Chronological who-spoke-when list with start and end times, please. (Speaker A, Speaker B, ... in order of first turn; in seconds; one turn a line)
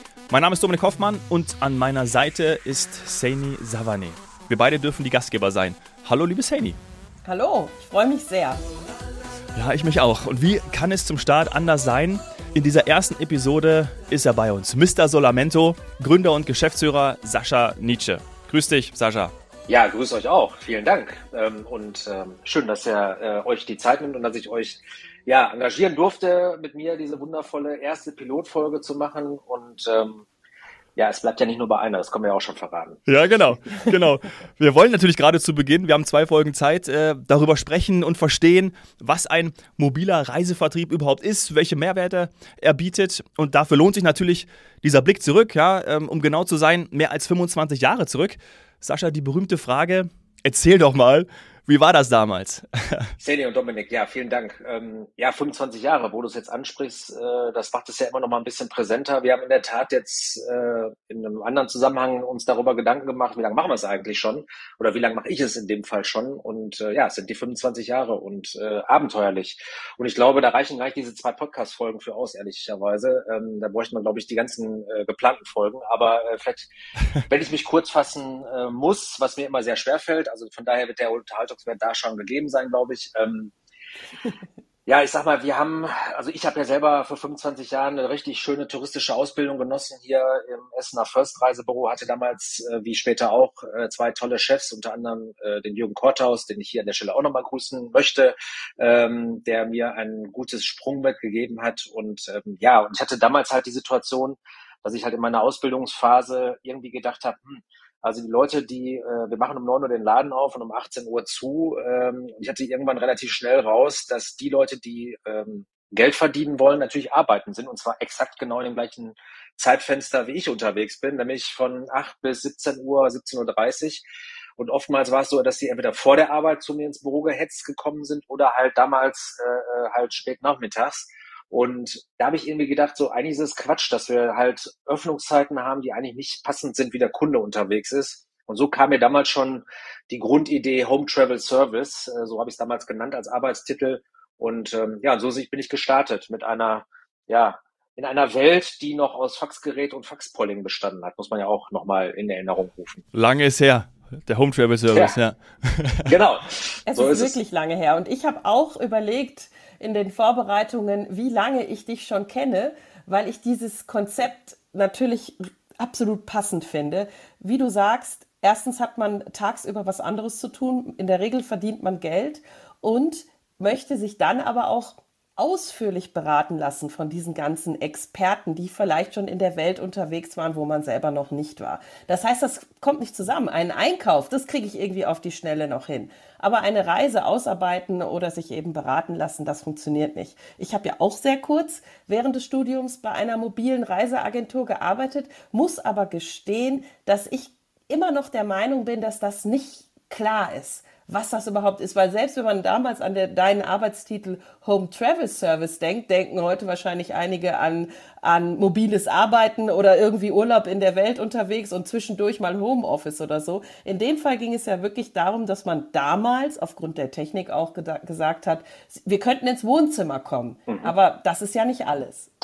Speaker A: 0.3-6.8
Speaker B: 7.2-8.6
Speaker A: 9.6-19.3
Speaker C: 19.7-30.2
Speaker C: 30.9-33.0
Speaker A: 33.1-53.1
Speaker C: 53.2-76.7
Speaker C: 77.3-83.5
Speaker C: 84.8-124.0
Speaker C: 124.6-153.0
Speaker A: 153.1-156.1
Speaker C: 154.9-155.2
Speaker C: 156.1-157.4
Speaker B: 156.9-222.3